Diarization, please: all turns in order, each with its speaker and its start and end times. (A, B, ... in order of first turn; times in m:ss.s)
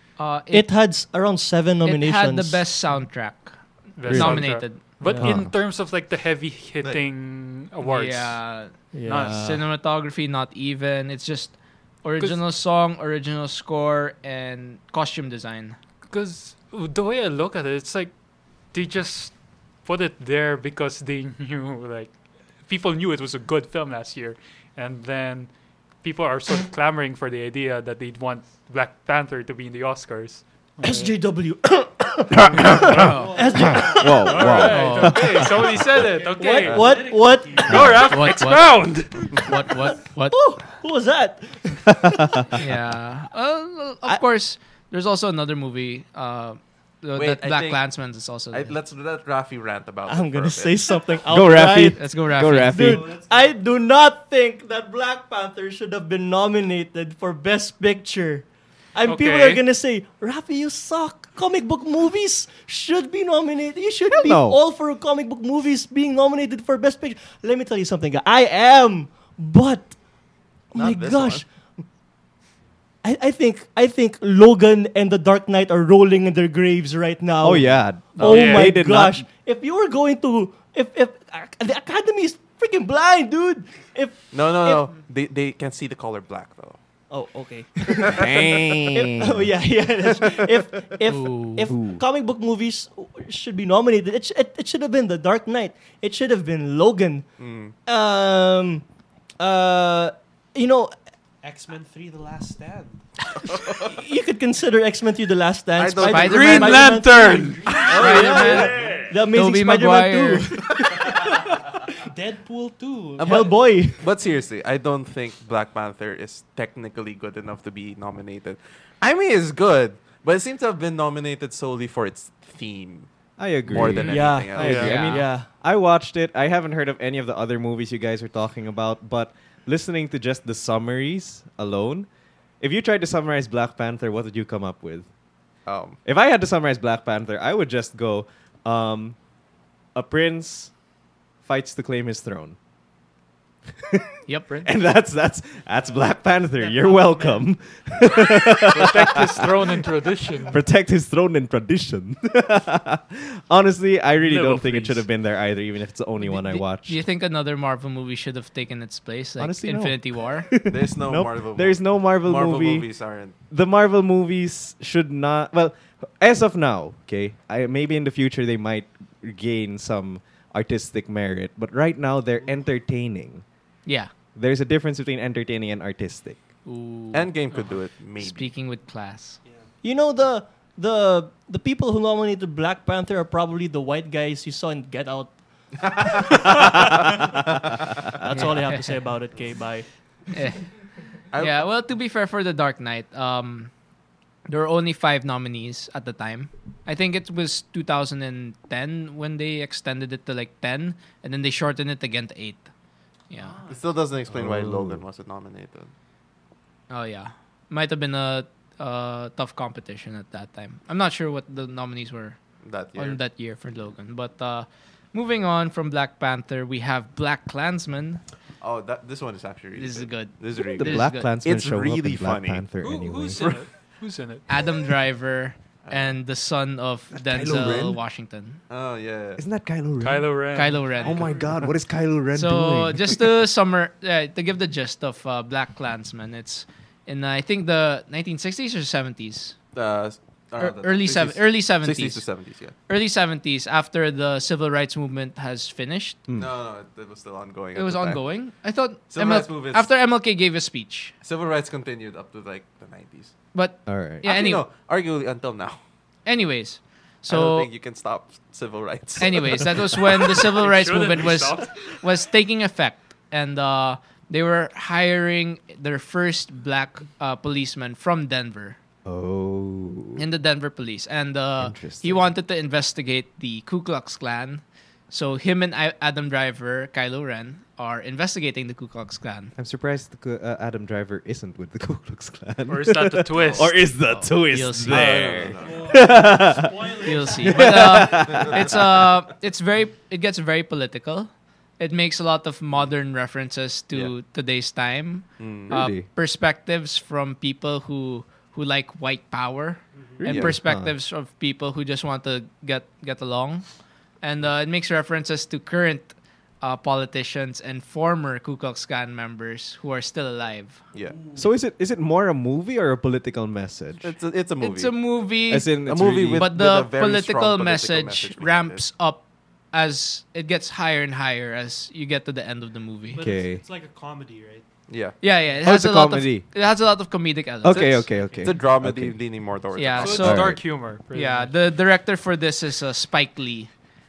0:00.2-0:00.7 A
0:00.5-0:02.7 B
0:01.8-0:05.2 A
0:04.0-0:09.5 C
0:04.1-0:05.6 D
0:05.0-0:05.4 B
0:07.8-0:15.8 A
0:08.8-0:09.6 B
0:16.1-0:31.2 C
0:30.8-0:34.8 B
0:32.3-0:35.9 D
0:32.9-0:33.4 A
0:33.1-0:34.0 E
0:34.0-0:39.4 C
0:34.5-0:35.3 A
0:35.9-0:37.9 E
0:36.3-0:38.0 B
0:36.7-0:37.0 F
0:37.7-0:38.1 D
0:38.1-0:40.4 A
0:40.3-0:42.4 B
0:42.6-0:48.8 A
0:47.2-0:47.8 F
0:48.5-0:51.0 F
0:50.1-1:10.0 B
0:51.3-0:53.1 D
0:51.9-0:52.8 A
0:52.8-0:53.6 E
0:59.0-0:59.6 C
1:04.1-1:04.6 D
1:10.7-1:11.5 B
1:10.7-1:11.4 F
1:13.0-1:24.9 B
1:17.4-1:19.3 D
1:18.2-1:18.7 C
1:24.3-1:26.8 F
1:27.1-1:37.3 B
1:28.0-1:29.5 D
1:31.1-1:31.7 A
1:31.7-1:32.0 D
1:37.4-1:37.8 F
1:37.8-1:38.8 B
1:39.4-1:41.0 B
1:41.4-1:43.0 E
1:43.5-1:43.9 F
1:43.9-1:51.4 B
1:45.8-1:46.8 F
1:46.0-1:46.8 A
1:46.1-1:48.2 C
1:47.0-1:49.1 E
1:47.8-1:48.8 A
1:47.9-1:48.9 F
1:49.3-1:50.5 A
1:51.0-1:51.3 E
1:52.1-1:53.4 E
1:53.2-2:03.1 F
1:53.2-1:54.0 B
2:03.4-2:12.1 D
2:03.6-2:05.0 F
2:04.0-2:05.5 B
2:04.6-2:05.2 A
2:12.6-2:15.1 D
2:15.7-2:16.0 F
2:16.0-2:19.2 D
2:19.9-2:20.7 D
2:21.4-2:22.6 D
2:24.3-2:24.6 A
2:24.6-2:29.6 D
2:26.6-2:27.4 E
2:28.6-2:30.6 C
2:30.5-2:37.0 D
2:34.2-2:35.0 C
2:36.2-2:40.5 A
2:39.4-2:53.4 D
2:40.7-2:43.4 F
2:52.4-2:52.7 E
2:53.9-2:54.1 A
2:54.4-2:56.4 D
2:56.6-2:57.3 A
2:57.1-2:58.5 F
2:58.2-2:59.4 A
2:59.8-3:05.4 B
3:08.2-3:09.9 B
3:08.3-3:09.0 A
3:10.3-3:10.7 A
3:11.3-3:11.7 F
3:11.3-3:13.7 A
3:14.5-3:22.7 A
3:23.3-3:23.6 A
3:23.7-3:25.9 F
3:24.3-3:25.0 D
3:26.9-3:32.4 A
3:32.6-3:33.2 F
3:32.9-3:38.2 A
3:38.6-3:42.6 F
3:39.8-3:41.3 A
3:40.6-3:43.6 D
3:42.8-3:44.4 C
3:43.4-3:43.6 F
3:44.5-3:48.6 A
3:45.8-3:46.2 F
3:47.1-3:48.0 D
3:48.7-3:49.4 F
3:49.4-3:53.3 D
3:50.0-3:51.3 C
3:50.5-3:51.3 A
3:51.0-3:51.5 E
3:52.3-3:59.6 A
3:59.7-4:02.8 F
4:00.6-4:02.3 A
4:02.9-4:06.2 A
4:06.4-4:08.3 F
4:07.7-4:11.2 A
4:09.1-4:09.9 F
4:11.2-4:13.4 F
4:13.5-4:14.6 A
4:13.9-4:14.2 D
4:14.2-4:15.8 F
4:16.3-4:17.7 A
4:17.3-4:20.2 F
4:19.2-4:28.8 A
4:20.6-4:21.9 C
4:29.0-4:30.2 D
4:30.2-4:39.5 A
4:31.6-4:32.3 D
4:39.6-4:49.0 D
4:42.7-4:43.9 C
4:44.1-4:45.5 A
4:44.9-4:46.1 F
4:45.6-4:47.7 E
4:46.9-5:10.8 A
4:48.3-4:48.7 F
4:55.4-4:55.8 F
4:55.7-4:56.1 D
5:00.2-5:01.0 D
5:00.2-5:00.6 F
5:10.9-5:11.2 F
5:11.4-5:14.1 D
5:14.0-5:15.2 F
5:14.6-5:23.2 A
5:15.5-5:16.5 D
5:15.8-5:18.8 F
5:23.1-5:24.7 E
5:23.2-5:23.6 D
5:24.9-5:25.2 F
5:25.2-5:28.1 A
5:25.6-5:26.5 D
5:27.6-5:29.2 D
5:27.7-5:30.4 F
5:29.8-5:33.7 A
5:30.0-5:31.6 C
5:30.2-5:30.6 D